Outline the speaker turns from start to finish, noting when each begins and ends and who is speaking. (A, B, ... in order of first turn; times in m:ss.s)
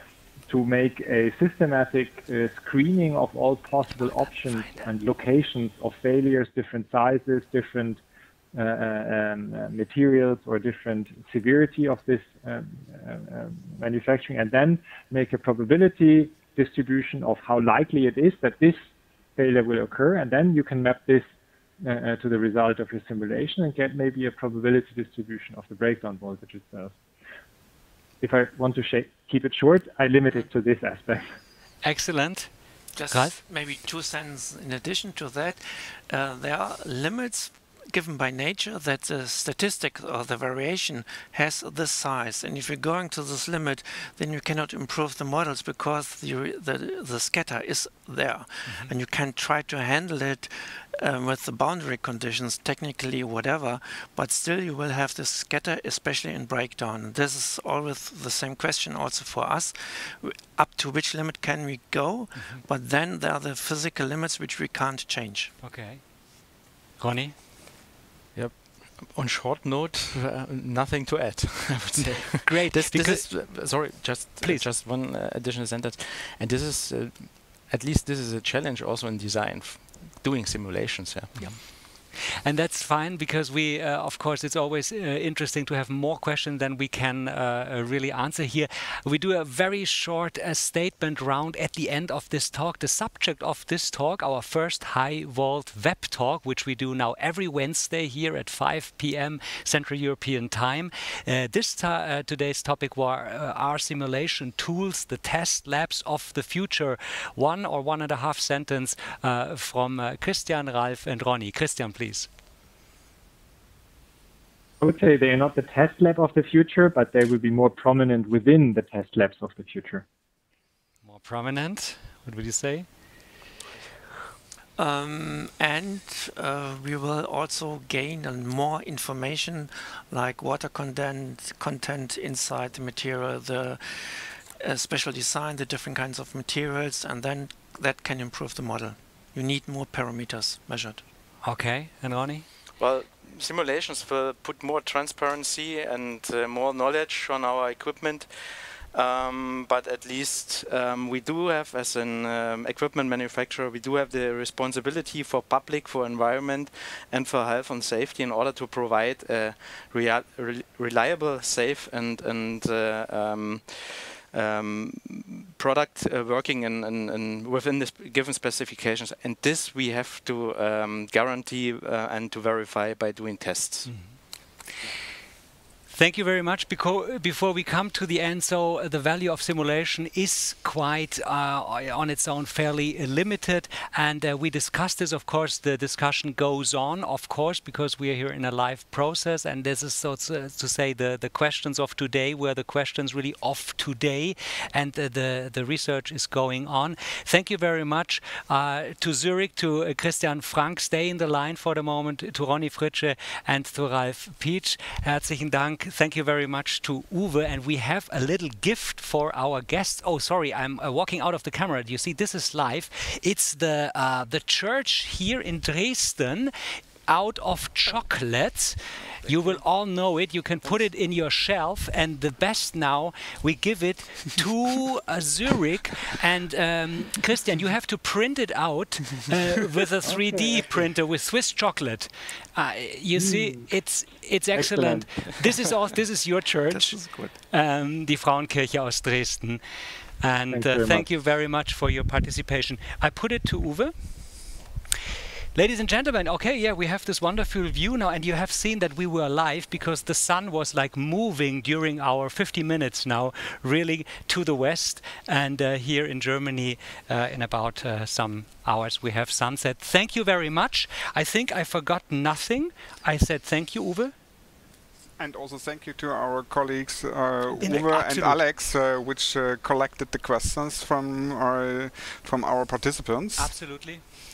0:00.5-0:08.0 A
0:08.6-0:18.8 A
0:19.4-0:21.2 A
0:21.8-0:27.0 A
0:28.2-0:31.2 A
0:31.8-0:33.4 B
0:33.0-1:05.5 C
0:48.7-0:48.9 B
1:02.4-1:02.6 B
1:05.6-1:06.0 B
1:07.0-1:07.4 B
1:08.4-1:21.5 D
1:12.4-1:13.9 B
1:14.4-1:14.7 B
1:21.4-1:21.8 B
1:22.4-1:52.3 B
1:54.8-2:00.0 A
2:01.0-2:02.9 B
2:04.8-2:21.0 C
2:21.4-2:22.5 B
2:22.8-2:54.1 D
2:53.9-2:54.2 B
2:55.9-3:36.5 B
3:37.1-3:59.6 B
3:39.2-3:39.6 C
3:50.1-3:50.8 A
3:53.2-3:53.7 A
3:54.6-3:55.4 A
3:56.7-3:57.4 C
4:00.2-4:04.7 B
4:00.5-4:01.0 A
4:05.6-4:24.1 B
4:25.2-4:33.6 E
4:27.5-4:28.4 B
4:33.4-4:34.0 B